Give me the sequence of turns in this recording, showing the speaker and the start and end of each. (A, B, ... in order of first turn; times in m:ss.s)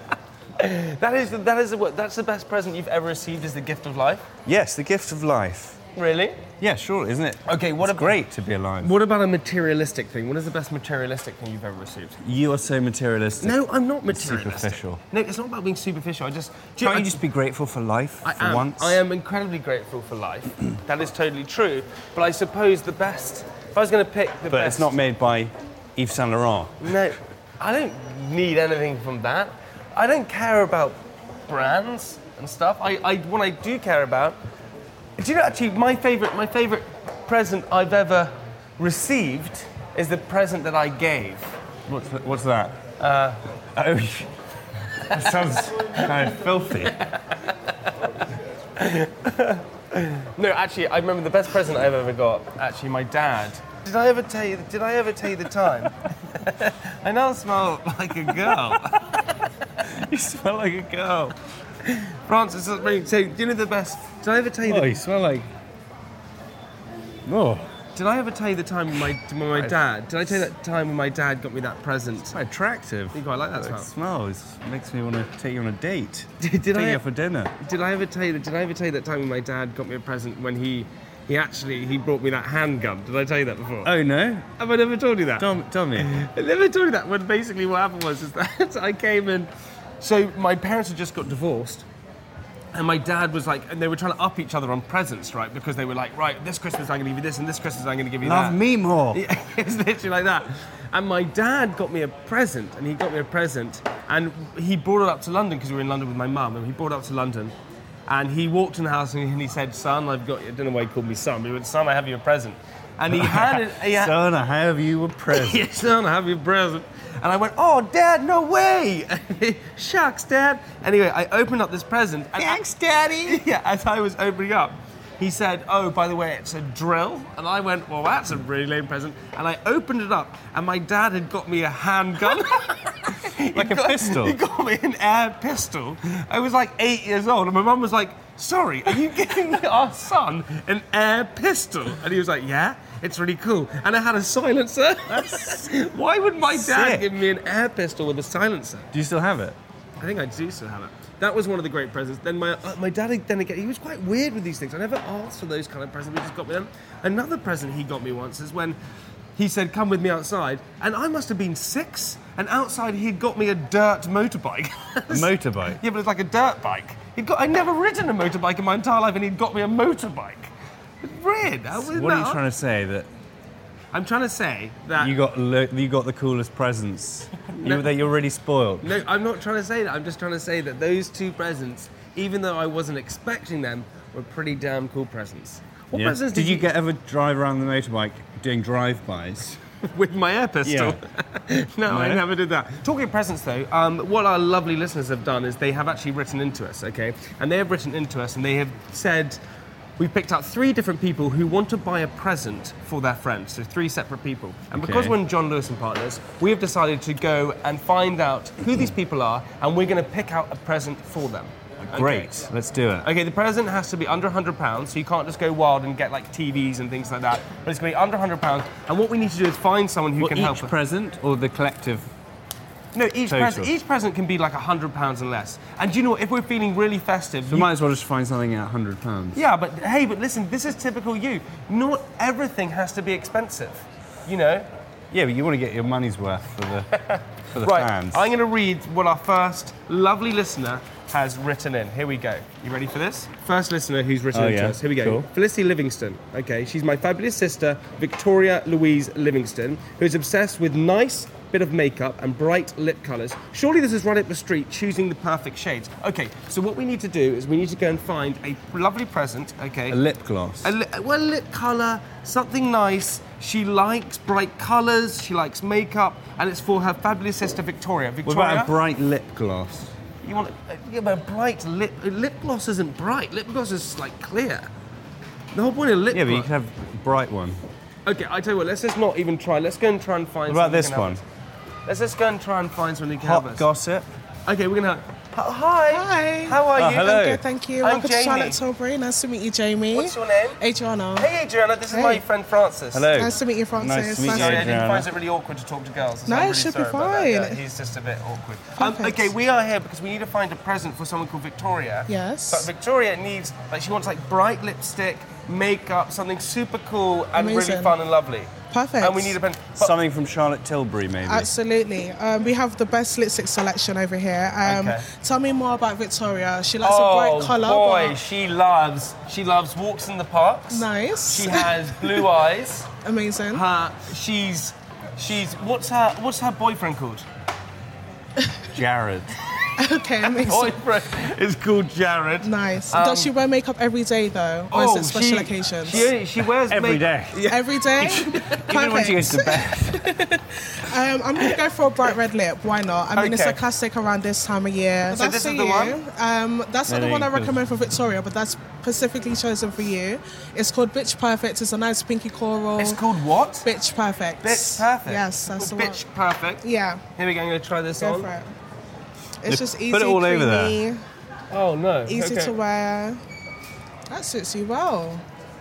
0:00.6-0:04.2 A
0:04.4-0:05.8 B
0:05.9-0:06.4 A
0:06.6-0:08.9 B
0:07.5-0:08.2 A
0:08.8-0:12.2 A
0:12.2-0:15.0 B
0:13.4-0:17.2 A
0:16.8-0:19.0 B
0:18.2-0:24.9 A
0:24.5-0:26.9 B
0:26.8-0:34.4 A
0:35.2-0:41.5 A
0:41.9-0:42.8 B
0:43.0-0:43.4 A
0:43.7-0:44.3 B
0:45.0-0:47.0 B
0:47.0-0:47.4 A
0:48.8-0:59.2 A
0:58.5-0:58.8 B
0:59.9-1:01.3 B
1:01.8-1:04.9 A
1:04.6-1:05.5 B
1:07.2-1:07.7 B
1:08.0-1:12.4 A
1:12.3-1:17.5 B
1:13.1-1:13.9 A
1:16.4-1:17.0 A
1:17.6-1:23.9 A
1:23.8-1:24.5 B
1:24.6-1:29.5 A
1:25.4-1:26.1 B
1:30.0-1:31.8 A
1:32.7-1:38.6 A
1:38.2-1:39.2 B
1:39.1-1:47.5 A
1:48.1-1:54.2 A
1:53.1-1:55.7 B
1:55.3-2:02.6 A
2:02.4-2:03.4 B
2:03.2-2:28.9 A
2:13.5-2:14.4 B
2:25.1-2:25.7 B
2:26.5-2:27.1 B
2:28.9-2:29.6 B
2:30.0-2:38.8 A
2:39.4-2:50.5 A
2:45.1-2:45.8 B
2:51.0-2:52.4 A
2:51.7-2:53.1 B
2:53.9-2:55.2 A
2:55.0-2:59.0 B
2:57.6-2:58.0 A
2:58.8-3:06.7 A
3:05.9-3:09.6 B
3:09.9-3:19.4 A
3:10.6-3:11.0 B
3:11.9-3:12.2 B
3:20.0-3:32.5 A
3:24.8-3:25.2 B
3:31.8-3:33.1 B
3:33.0-3:40.7 A
3:40.2-3:42.1 B
3:42.9-3:47.7 A
3:43.3-3:43.7 B
3:47.5-3:49.4 B
3:49.3-3:54.7 A
3:55.1-3:56.9 B
3:57.0-4:20.0 A
3:57.5-3:58.3 B
4:04.3-4:05.3 B
4:19.9-4:20.7 B
4:20.6-4:28.7 A
4:28.2-4:29.9 B
4:30.2-4:34.7 A
4:35.5-4:36.5 A
4:36.1-4:37.6 B
4:38.0-4:41.2 A
4:40.5-4:41.2 B
4:41.8-4:43.6 A
4:43.2-4:44.1 B
4:44.4-4:47.3 A
4:45.9-4:51.3 C
4:46.7-4:47.4 B
4:47.8-4:48.6 A
4:49.9-4:50.6 A
4:51.2-4:53.2 A
4:51.9-4:52.2 C
4:52.9-4:55.1 B
4:53.1-4:54.8 C
4:54.2-5:10.0 A
4:56.3-4:57.6 C
4:58.8-4:59.3 C
5:02.1-5:02.7 C
5:07.3-5:07.9 C
5:08.7-5:09.4 C
5:09.8-5:11.5 B
5:11.3-5:18.2 C
5:14.6-5:15.0 A
5:16.8-5:22.9 A
5:20.7-5:22.3 C
5:23.0-5:23.6 C
5:23.5-5:27.2 A
5:28.7-5:29.3 B
5:29.8-5:30.8 C
5:30.3-5:33.3 A
5:32.4-5:36.1 C
5:34.7-5:38.6 A
5:36.7-5:40.1 B
5:37.5-5:53.0 C
5:43.1-5:43.6 A
5:45.1-5:46.0 A
5:46.9-5:47.6 B
5:52.8-5:53.7 A
5:53.6-5:56.0 C
5:54.4-5:56.6 A
5:56.6-5:57.0 C
5:57.2-5:58.3 A
5:58.0-5:58.5 C
5:59.4-6:01.0 C
5:59.5-6:00.8 B
6:01.5-6:02.5 A
6:02.1-6:03.2 C
6:04.1-6:05.2 C